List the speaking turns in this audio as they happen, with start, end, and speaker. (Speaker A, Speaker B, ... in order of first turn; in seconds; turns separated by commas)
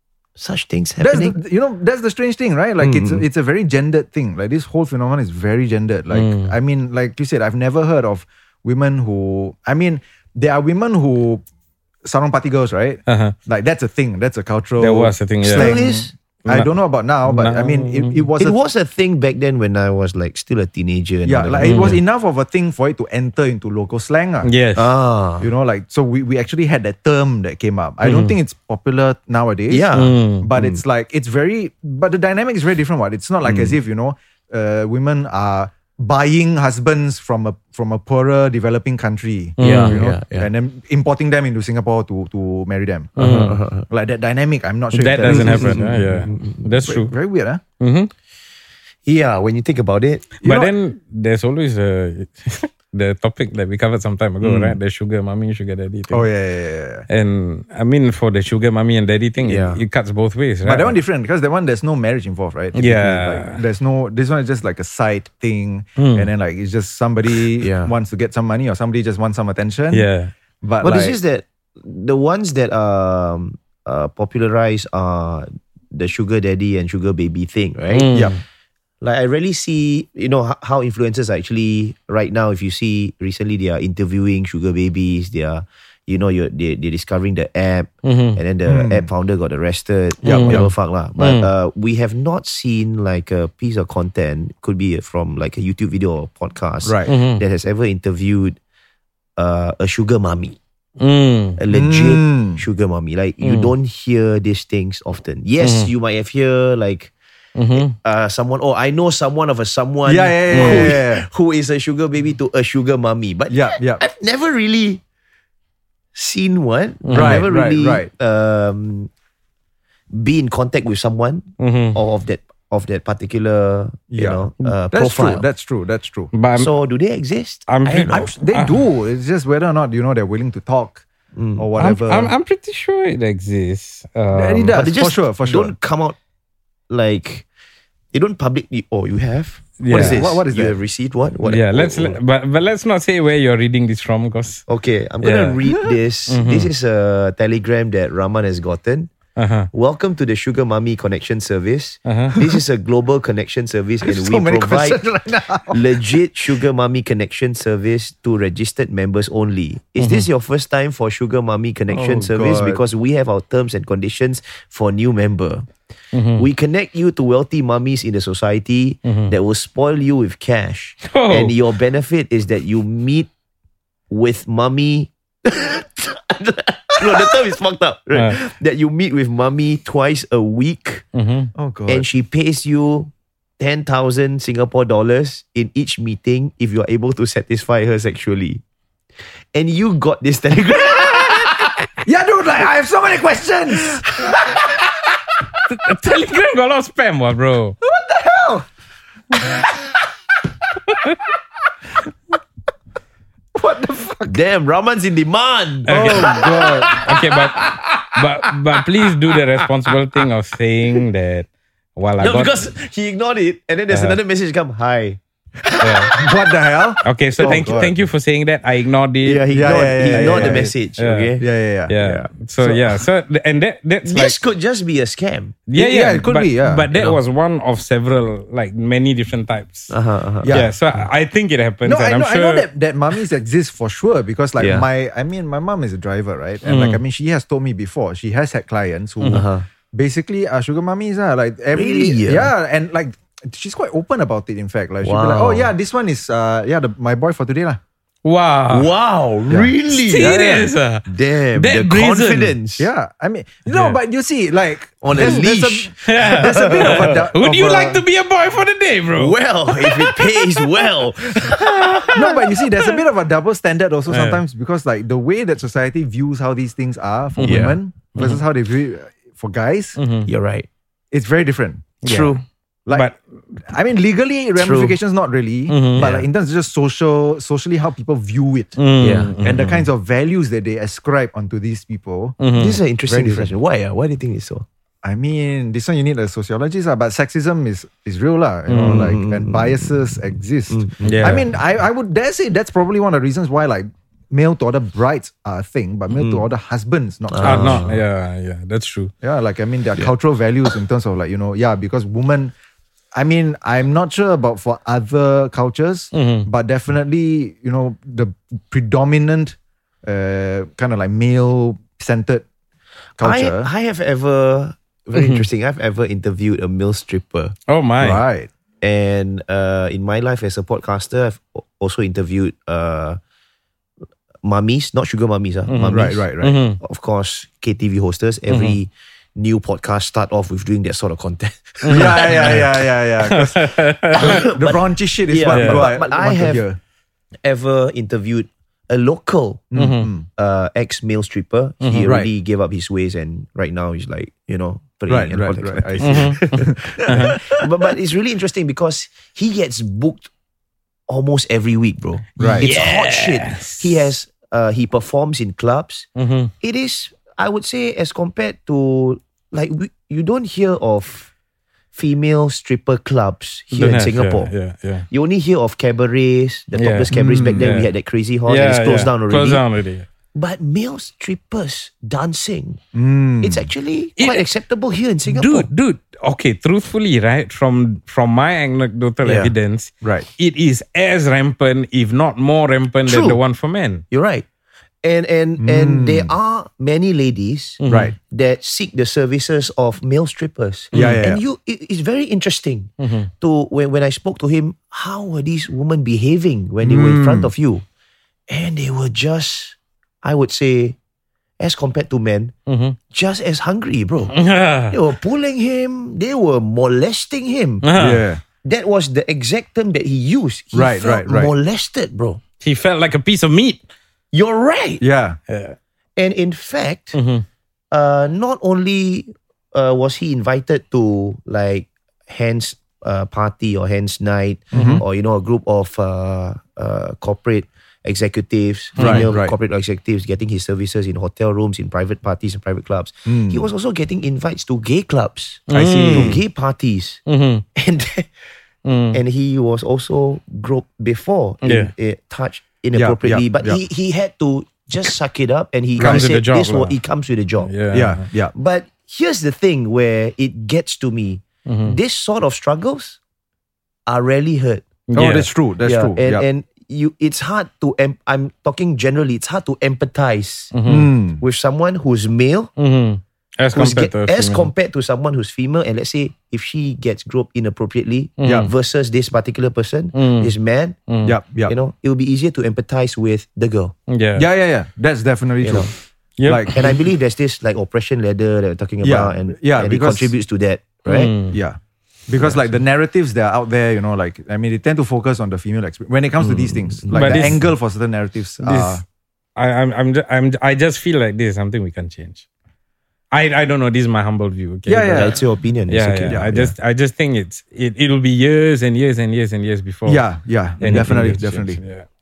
Speaker A: 0.4-1.4, Speaker B: 1.0-11.4, Speaker A: 2.8-3.2, Speaker C: 6.1-6.5, Speaker B: 12.0-18.6, Speaker C: 13.1-13.3, Speaker C: 14.8-15.8, Speaker A: 15.5-16.1, Speaker C: 16.4-16.7, Speaker C: 17.2-18.3, Speaker A: 18.4-22.0, Speaker B: 21.2-24.5, Speaker C: 21.6-22.0, Speaker C: 24.4-24.9, Speaker A: 24.7-25.5, Speaker B: 25.4-29.9, Speaker C: 28.0-28.3, Speaker A: 29.7-30.8, Speaker C: 29.9-30.5, Speaker B: 30.4-43.1, Speaker A: 33.4-33.8, Speaker C: 39.6-40.0, Speaker A: 39.6-40.5, Speaker A: 43.1-43.9, Speaker C: 43.2-43.6, Speaker B: 43.9-45.9, Speaker C: 44.9-47.1, Speaker A: 45.2-46.7, Speaker B: 46.9-47.6, Speaker C: 47.8-48.1, Speaker A: 49.0-50.3, Speaker B: 50.4-50.7, Speaker C: 50.4-56.3, Speaker B: 56.1-57.0, Speaker C: 57.1-60.9, Speaker A: 59.4-59.8, Speaker B: 60.6-70.1, Speaker C: 62.7-63.6, Speaker C: 66.0-66.3, Speaker A: 67.6-67.9, Speaker C: 69.9-70.3, Speaker B: 70.6-71.2, Speaker A: 70.8-78.1, Speaker C: 77.9-78.4, Speaker A: 79.0-98.6, Speaker C: 88.0-88.4, Speaker B: 88.7-89.1, Speaker B: 90.2-90.7, Speaker C: 90.2-91.5, Speaker B: 96.8-97.1, Speaker C: 97.1-97.4, Speaker A: 99.4-100.6, Speaker C: 101.0-101.6, Speaker A: 101.6-107.1, Speaker B: 101.7-102.6, Speaker C: 103.4-103.7, Speaker C: 105.6-105.9, Speaker C: 107.5-107.9, Speaker A: 107.7-115.0, Speaker B: 110.0-111.2, Speaker C: 110.5-110.9, Speaker B: 113.5-114.0, Speaker A: 116.1-119.1, Speaker C: 117.0-117.5, Speaker B: 117.1-118.1, Speaker A: 120.1-125.4, Speaker C: 121.6-122.0, Speaker B: 124.1-126.3, Speaker C: 126.3-126.7, Speaker A: 126.5-128.3, Speaker C: 127.7-128.8, Speaker B: 128.1-131.0, Speaker A: 131.3-131.7, Speaker B: 131.6-132.3, Speaker C: 131.8-134.8, Speaker B: 134.3-135.7, Speaker A: 134.7-136.2, Speaker A: 136.9-137.4, Speaker A: 138.1-142.2, Speaker C: 139.8-140.3, Speaker B: 139.9-140.8, Speaker C: 141.4-144.7, Speaker A: 144.7-149.1, Speaker C: 145.2-145.6, Speaker C: 146.3-146.7, Speaker C: 149.3-149.7, Speaker A: 149.7-155.0, Speaker C: 152.1-152.3, Speaker B: 154.0-156.2, Speaker A: 155.7-165.7, Speaker C: 160.0-160.3, Speaker B: 161.9-162.8, Speaker C: 166.1-166.5, Speaker A: 166.3-173.3, Speaker C: 169.0-169.3, Speaker C: 171.0-171.6, Speaker A: 174.1-181.0, Speaker C: 178.1-178.4, Speaker C: 181.1-181.5, Speaker B: 181.5-182.1, Speaker A: 181.9-188.6, Speaker A: 189.5-191.7, Speaker B: 192.0-194.1, Speaker C: 195.7-197.8, Speaker B: 197.8-198.7, Speaker B: 203.5-204.4, Speaker A: 204.2-207.8, Speaker C: 205.8-212.6, Speaker B: 205.9-207.1, Speaker A: 212.2-216.3, Speaker C: 213.9-214.2, Speaker C: 215.8-216.2, Speaker B: 216.1-217.9, Speaker C: 217.0-221.3, Speaker A: 217.4-217.8, Speaker A: 219.2-221.4, Speaker B: 219.5-220.7, Speaker B: 221.4-221.9, Speaker C: 221.9-224.4, Speaker A: 222.0-222.3, Speaker B: 222.6-223.0, Speaker A: 224.0-225.6, Speaker C: 225.7-229.9, Speaker B: 225.7-226.9, Speaker A: 229.9-230.6, Speaker B: 230.4-230.8, Speaker C: 230.5-232.7, Speaker B: 231.8-247.8, Speaker A: 234.6-234.9, Speaker C: 236.6-237.0, Speaker A: 239.3-239.7, Speaker A: 241.7-242.5, Speaker A: 245.0-245.7, Speaker C: 248.2-248.9, Speaker A: 248.7-250.4, Speaker B: 249.5-250.7, Speaker C: 249.9-252.6, Speaker A: 251.1-252.9, Speaker B: 252.8-258.0, Speaker C: 253.7-254.0, Speaker A: 255.0-257.2, Speaker C: 256.0-260.9, Speaker A: 259.1-262.2, Speaker C: 261.4-262.9, Speaker B: 262.1-270.0, Speaker C: 264.1-264.4, Speaker C: 267.4-268.4, Speaker A: 267.4-267.8, Speaker C: 270.0-270.3, Speaker A: 270.2-270.7, Speaker B: 271.1-272.0, Speaker C: 272.0-273.2, Speaker A: 272.0-272.4, Speaker B: 272.9-273.1, Speaker B: 273.6-278.8, Speaker A: 274.6-275.0, Speaker C: 275.7-276.1, Speaker A: 276.0-276.2, Speaker C: 278.8-279.9, Speaker A: 279.0-279.3, Speaker B: 279.4-282.4, Speaker C: 282.4-282.8, Speaker A: 282.5-284.6, Speaker B: 283.1-283.5, Speaker B: 285.0-297.9, Speaker C: 288.7-289.1, Speaker A: 288.8-290.2, Speaker A: 290.7-291.4, Speaker C: 291.0-291.5, Speaker A: 296.1-296.4, Speaker A: 297.3-298.0, Speaker C: 297.4-299.1, Speaker B: 299.2-302.5, Speaker B: 303.1-312.4, Speaker C: 306.1-306.5, Speaker B: 313.2-313.7, Speaker A: 313.2-317.5, Speaker C: 315.1-315.4, Speaker C: 317.7-318.2, Speaker B: 318.0-318.5, Speaker A: 318.8-323.2, Speaker A: 324.4-326.2, Speaker C: 325.7-326.8, Speaker B: 325.9-326.6, Speaker A: 326.8-332.6, Speaker C: 328.5-328.8, Speaker C: 331.8-332.7, Speaker B: 331.9-336.8, Speaker C: 333.2-334.4, Speaker A: 334.1-336.6, Speaker C: 335.5-335.9, Speaker A: 337.4-339.7, Speaker B: 339.7-340.2, Speaker C: 339.7-340.1, Speaker A: 340.4-350.3, Speaker C: 341.8-342.1, Speaker B: 342.0-342.3, Speaker B: 345.1-347.4, Speaker C: 346.0-347.4, Speaker A: 351.1-356.1, Speaker B: 352.4-352.7, Speaker C: 352.4-354.1, Speaker C: 356.1-356.5, Speaker A: 356.6-361.3, Speaker A: 361.9-364.5, Speaker C: 363.7-365.1, Speaker A: 365.1-369.6, Speaker C: 366.7-367.9, Speaker B: 367.1-367.7, Speaker C: 368.4-370.1, Speaker A: 370.3-372.8, Speaker B: 372.9-373.7, Speaker A: 373.4-375.7, Speaker C: 374.2-374.4, Speaker C: 375.2-384.0, Speaker A: 379.2-379.5, Speaker B: 380.0-380.3, Speaker A: 383.1-383.4, Speaker A: 384.1-384.4, Speaker A: 385.0-397.8, Speaker B: 385.6-386.3, Speaker C: 387.8-388.1, Speaker B: 387.9-388.1, Speaker C: 390.9-391.2, Speaker B: 390.9-391.4, Speaker C: 393.0-393.3, Speaker B: 396.8-397.5, Speaker A: 398.5-401.0, Speaker A: 401.6-402.5, Speaker C: 402.7-403.0, Speaker A: 403.1-404.3, Speaker C: 404.3-404.9, Speaker A: 404.9-407.9, Speaker C: 407.8-408.2, Speaker B: 407.9-408.4, Speaker A: 408.6-412.4, Speaker B: 410.7-411.5, Speaker C: 412.6-413.8, Speaker A: 414.3-415.0, Speaker B: 415.0-415.4, Speaker C: 415.5-415.8, Speaker A: 416.2-417.2, Speaker C: 417.1-417.4, Speaker A: 417.9-437.2, Speaker C: 424.7-425.0, Speaker B: 424.7-425.0, Speaker C: 429.0-429.3, Speaker B: 429.0-429.5, Speaker B: 433.2-433.6, Speaker C: 435.7-436.4, Speaker B: 435.7-436.4, Speaker C: 437.3-437.6, Speaker A: 437.8-438.3, Speaker C: 438.8-439.2, Speaker A: 439.1-447.7, Speaker C: 441.6-441.9, Speaker B: 442.9-443.8, Speaker C: 446.0-447.0, Speaker B: 446.0-446.3, Speaker C: 447.6-448.2, Speaker B: 447.9-448.5, Speaker A: 448.5-453.2, Speaker C: 451.6-452.0, Speaker A: 454.1-454.9, Speaker C: 455.1-455.5, Speaker B: 455.1-456.4, Speaker A: 455.8-460.7, Speaker C: 460.7-461.1, Speaker B: 460.9-461.4, Speaker A: 461.4-462.7, Speaker C: 462.8-464.7, Speaker A: 463.7-471.0, Speaker C: 468.4-468.7, Speaker B: 468.4-468.7, Speaker C: 470.1-470.5, Speaker C: 471.1-471.4, Speaker B: 471.2-471.7, Speaker A: 471.6-473.9, Speaker C: 474.1-474.5, Speaker B: 474.4-475.9, Speaker A: 475.6-475.9, Speaker C: 476.4-476.9, Speaker B: 476.4-476.9, Speaker A: 476.7-481.3, Speaker B: 479.0-480.3, Speaker C: 481.1-481.6, Speaker B: 481.5-489.0, Speaker A: 482.4-482.7, Speaker A: 486.4-487.6, Speaker C: 487.1-487.6, Speaker C: 488.6-489.0, Speaker C: 489.6-492.4, Speaker C: 493.3-500.3, Speaker B: 494.9-495.4, Speaker A: 495.1-496.7, Speaker B: 500.1-501.8, Speaker C: 500.8-502.1